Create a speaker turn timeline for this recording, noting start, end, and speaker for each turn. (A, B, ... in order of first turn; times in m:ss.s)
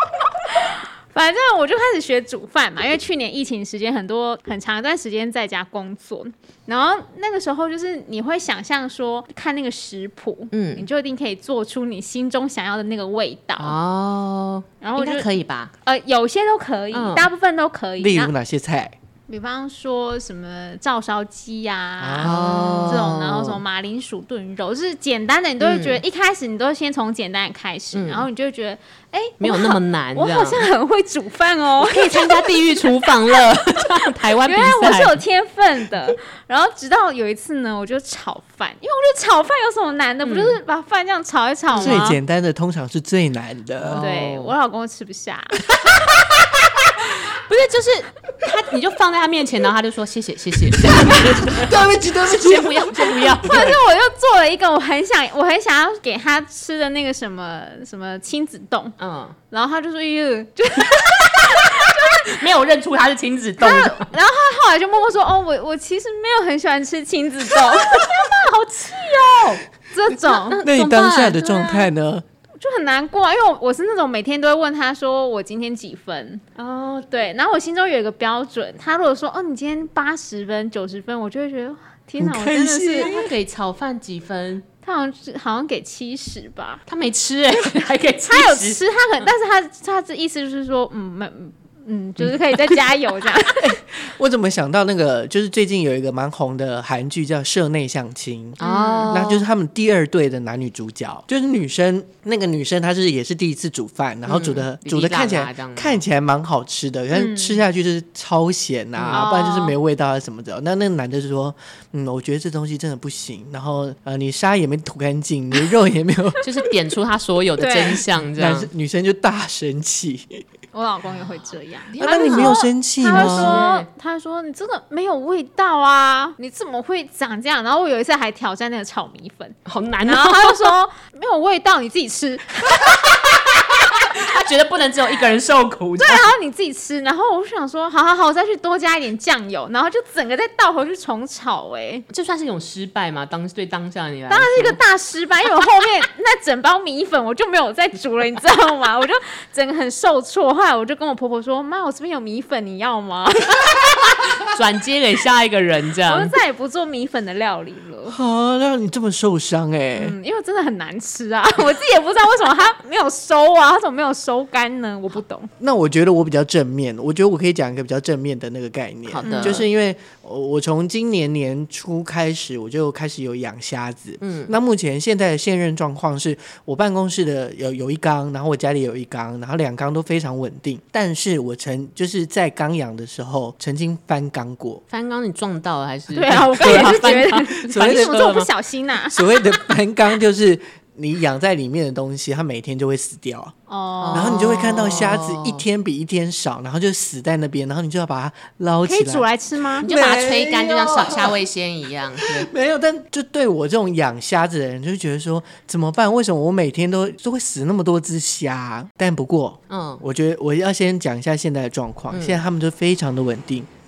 0:00.5-0:13.8 A
0:10.5-0:10.8 B
0:13.6-0:15.7 B
0:14.8-0:15.3 A
0:15.8-0:18.3 A
0:16.9-0:17.3 B
0:18.0-0:18.9 C
0:19.3-0:33.1 A
0:22.0-0:22.9 C
0:22.2-0:23.6 B
0:25.6-0:26.0 B
0:27.9-0:28.3 B
0:29.4-0:30.7 B
0:31.8-0:35.2 B
0:34.4-0:42.2 A
0:40.2-0:40.6 B
0:41.7-0:42.0 B
0:41.8-0:44.0 C
0:43.8-0:44.5 B
0:44.0-0:45.6 A
0:47.1-0:53.8 B
0:50.9-0:53.5 C
0:53.4-0:59.0 A
0:59.0-0:59.4 B
0:59.5-1:02.4 A
1:00.9-1:04.1 B
1:03.6-1:08.1 A
1:07.7-1:09.6 B
1:09.9-1:10.6 A
1:10.3-1:11.9 B
1:10.6-1:12.2 C
1:12.6-1:16.4 A
1:16.6-1:17.1 B
1:17.1-1:23.3 A
1:22.2-1:23.1 C
1:23.0-1:24.6 B
1:24.8-1:26.8 A
1:26.9-1:29.3 B
1:28.3-1:33.7 A
1:33.6-1:56.4 C
1:38.6-1:39.4 B
1:38.6-1:39.2 A
1:44.3-1:46.0 B
1:47.1-1:47.6 A
1:49.0-1:49.3 B
1:49.1-1:49.8 A
1:56.4-1:58.7 B
1:57.6-1:58.0 A
1:58.4-2:00.4 C
2:00.7-2:13.0 A
2:01.9-2:03.9 B
2:02.0-2:03.6 C
2:09.6-2:10.7 B
2:12.8-2:16.3 B
2:16.0-2:22.0 A
2:22.1-2:24.8 B
2:24.3-2:34.0 A
2:34.4-2:36.3 B
2:36.0-2:38.2 A
2:38.1-2:40.1 C
2:40.0-2:45.5 A
2:45.6-3:04.8 C
2:49.1-2:49.7 B
2:49.2-2:49.6 A
2:54.2-2:54.5 B
3:04.9-3:08.5 B
3:06.1-3:09.6 A
3:06.6-3:07.0 C
3:07.5-3:08.3 C
3:09.1-3:13.5 C
3:13.7-3:14.5 A
3:14.0-3:15.6 B
3:14.1-3:19.3 C
3:18.8-3:19.9 A
3:19.8-3:21.4 C
3:19.8-3:22.5 B
3:22.2-3:33.7 C
3:29.7-3:30.0 B
3:32.1-3:32.4 B